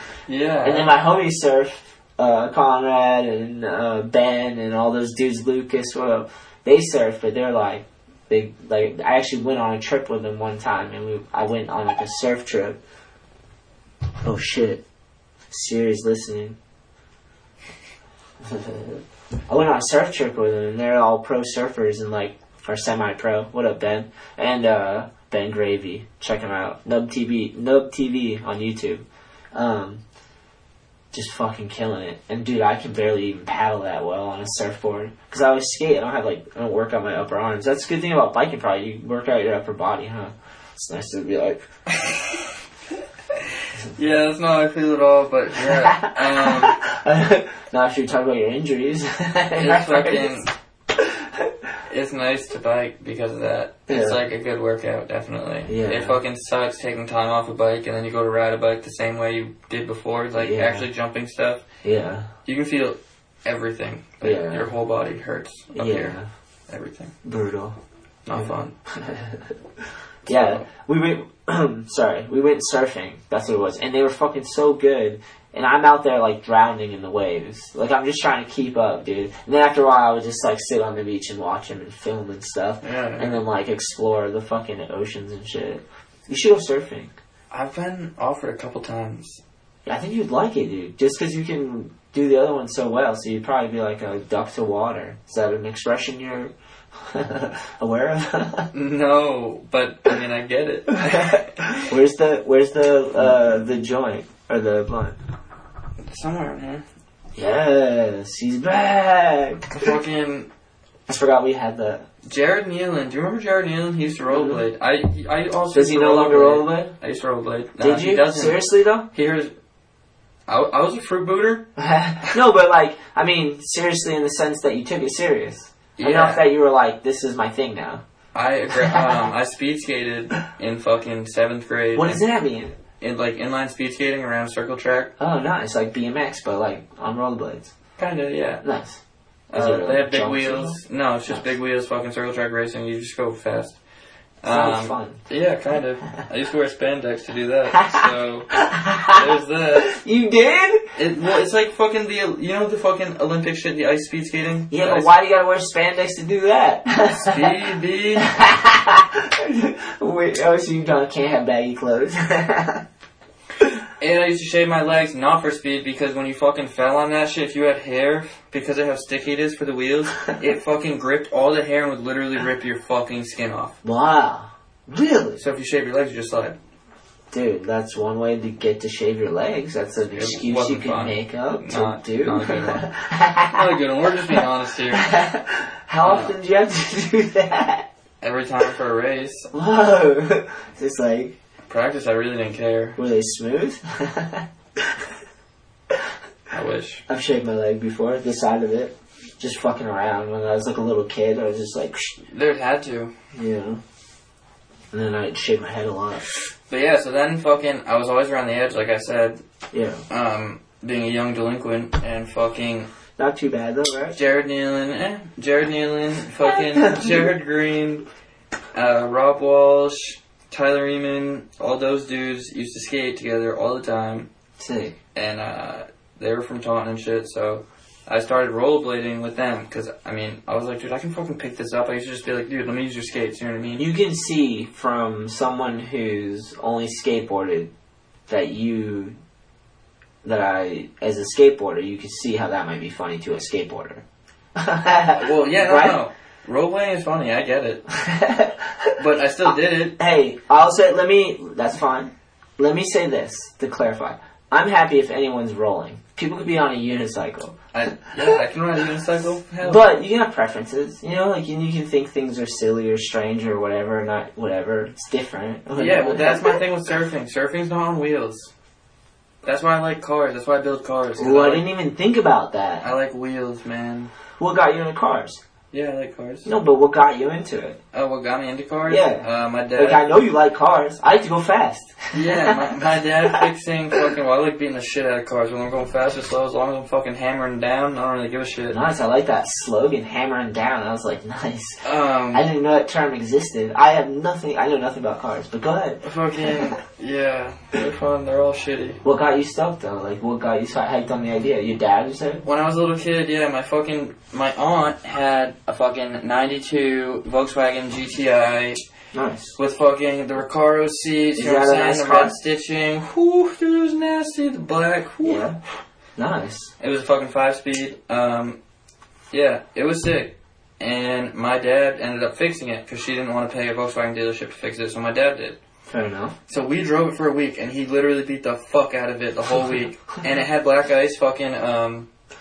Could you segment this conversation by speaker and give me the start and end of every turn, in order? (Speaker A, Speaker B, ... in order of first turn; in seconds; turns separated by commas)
Speaker A: 0.3-0.9, Speaker B: 0.6-12.8, Speaker B: 14.2-14.8, Speaker B: 15.5-16.6, Speaker B: 18.4-30.0, Speaker B: 31.1-41.6, Speaker A: 42.0-42.4, Speaker A: 43.9-46.8, Speaker B: 45.6-50.3, Speaker A: 49.6-50.5, Speaker B: 51.0-51.5, Speaker A: 51.9-61.6, Speaker B: 53.9-54.2, Speaker B: 55.7-56.2, Speaker B: 60.4-60.9, Speaker B: 61.8-62.3, Speaker A: 62.5-66.2, Speaker B: 64.2-64.7, Speaker B: 65.7-66.3, Speaker A: 66.7-67.1, Speaker B: 67.2-67.8, Speaker A: 68.2-68.8, Speaker B: 68.3-69.5, Speaker A: 70.3-70.7, Speaker B: 70.3-87.2, Speaker A: 82.8-83.3, Speaker A: 87.5-89.4, Speaker B: 89.8-98.7, Speaker A: 98.7-101.5, Speaker B: 101.0-105.2, Speaker A: 106.0-106.8, Speaker B: 107.3-109.9, Speaker A: 109.7-110.5, Speaker B: 111.1-112.1, Speaker A: 112.3-119.5, Speaker B: 114.3-114.7, Speaker B: 115.7-116.9, Speaker B: 117.8-119.1, Speaker A: 120.5-121.7, Speaker B: 121.8-128.0, Speaker A: 126.0-126.5, Speaker A: 128.3-132.2, Speaker B: 128.8-129.2, Speaker B: 131.9-132.8, Speaker A: 133.0-135.1, Speaker B: 135.2-137.7, Speaker A: 138.0-138.6, Speaker B: 138.6-139.0, Speaker A: 139.5-143.8, Speaker B: 139.5-141.5, Speaker A: 144.4-148.5, Speaker B: 144.5-145.2, Speaker B: 147.7-150.9, Speaker A: 149.1-149.9, Speaker A: 150.9-155.1, Speaker B: 154.7-157.5, Speaker A: 157.1-158.3, Speaker B: 158.2-162.8, Speaker A: 164.0-173.8, Speaker B: 173.8-175.4, Speaker A: 175.4-176.6, Speaker B: 177.3-187.9, Speaker A: 180.1-182.9, Speaker A: 183.5-185.1, Speaker A: 186.0-186.4, Speaker A: 188.2-189.5, Speaker B: 189.5-191.4, Speaker A: 191.7-193.0, Speaker B: 193.0-195.1, Speaker A: 196.5-197.0, Speaker B: 197.1-202.2, Speaker A: 202.3-203.1, Speaker B: 203.3-203.8, Speaker B: 204.9-206.2, Speaker A: 206.7-209.4, Speaker B: 209.7-210.0, Speaker A: 210.1-212.9, Speaker B: 213.2-214.2, Speaker A: 214.1-218.1, Speaker B: 216.5-217.2, Speaker A: 218.7-224.3, Speaker B: 224.6-225.0, Speaker A: 225.2-233.9, Speaker B: 233.8-237.7, Speaker B: 238.3-239.2, Speaker B: 240.2-244.0, Speaker B: 244.6-246.0, Speaker A: 245.1-247.8, Speaker B: 248.0-248.9, Speaker A: 249.0-250.0, Speaker B: 249.5-258.2, Speaker A: 257.7-259.8, Speaker B: 259.6-266.6, Speaker A: 265.8-268.5, Speaker A: 269.4-271.7, Speaker B: 271.2-272.9, Speaker A: 272.8-274.1, Speaker B: 274.4-275.4, Speaker A: 275.7-276.5, Speaker B: 276.4-277.8, Speaker A: 277.9-280.0, Speaker B: 278.9-283.4, Speaker A: 282.1-288.8, Speaker B: 288.7-296.6, Speaker A: 291.8-292.5, Speaker A: 296.0-299.0, Speaker B: 299.0-302.4, Speaker A: 302.4-308.8, Speaker B: 309.1-309.6, Speaker A: 309.6-315.4, Speaker B: 311.4-312.4, Speaker B: 315.2-315.6, Speaker B: 316.2-316.7, Speaker A: 316.8-318.6, Speaker A: 319.3-325.6, Speaker B: 325.9-326.4, Speaker A: 326.5-332.1